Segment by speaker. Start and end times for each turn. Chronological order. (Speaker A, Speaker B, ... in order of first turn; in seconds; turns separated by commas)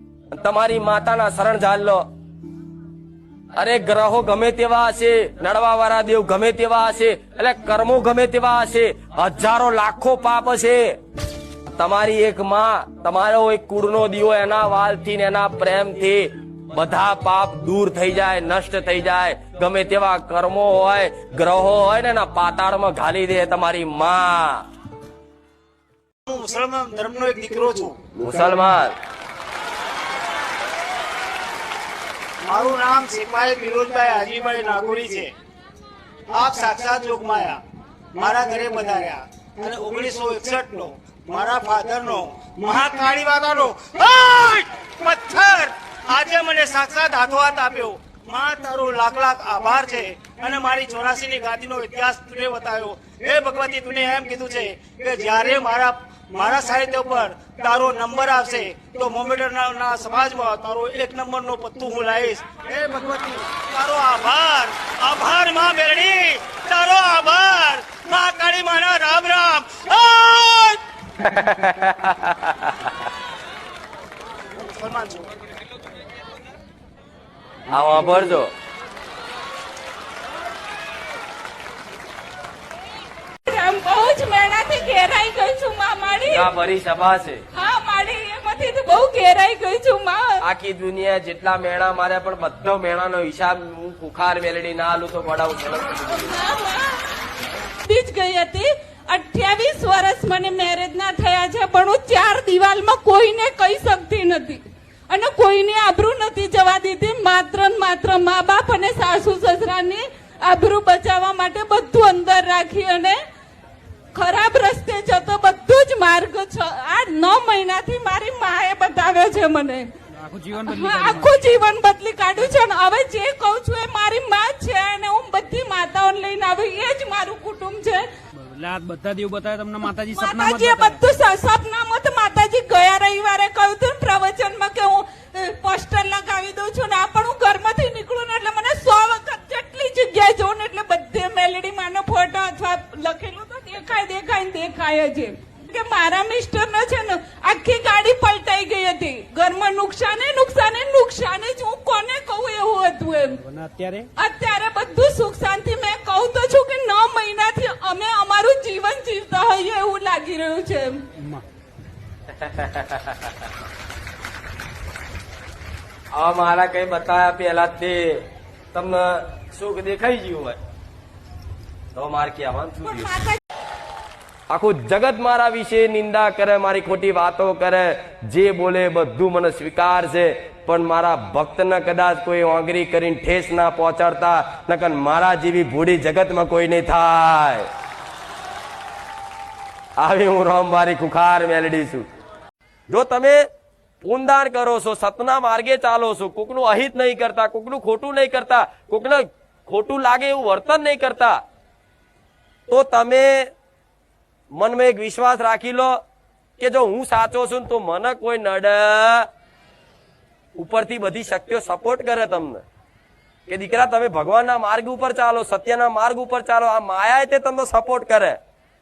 Speaker A: 0.3-2.0, Speaker A: 3.6-10.9, Speaker A: 11.7-24.6, Speaker B: 26.3-28.0, Speaker A: 28.2-28.9, Speaker B: 32.5-35.3, Speaker B: 36.3-37.6, Speaker B: 38.1-70.8, Speaker A: 71.2-72.9, Speaker B: 74.5-75.3, Speaker A: 77.7-78.5, Speaker C: 83.5-86.5, Speaker A: 86.3-87.4, Speaker C: 87.5-90.4, Speaker A: 90.4-96.4, Speaker C: 96.3-97.2, Speaker C: 97.8-113.2, Speaker C: 114.1-119.9, Speaker D: 120.2-121.4, Speaker C: 120.6-128.1, Speaker D: 128.4-131.0, Speaker C: 130.1-153.4, Speaker D: 153.4-154.1, Speaker C: 154.2-161.1, Speaker A: 162.4-163.2, Speaker A: 166.1-170.6, Speaker A: 171.9-173.2, Speaker C: 172.8-173.4, Speaker A: 174.5-187.7, Speaker A: 190.0-192.1, Speaker A: 192.9-193.4, Speaker A: 194.0-201.4, Speaker A: 202.7-203.5, Speaker A: 204.5-206.0, Speaker A: 206.6-209.3, Speaker A: 210.6-212.6, Speaker A: 213.5-218.4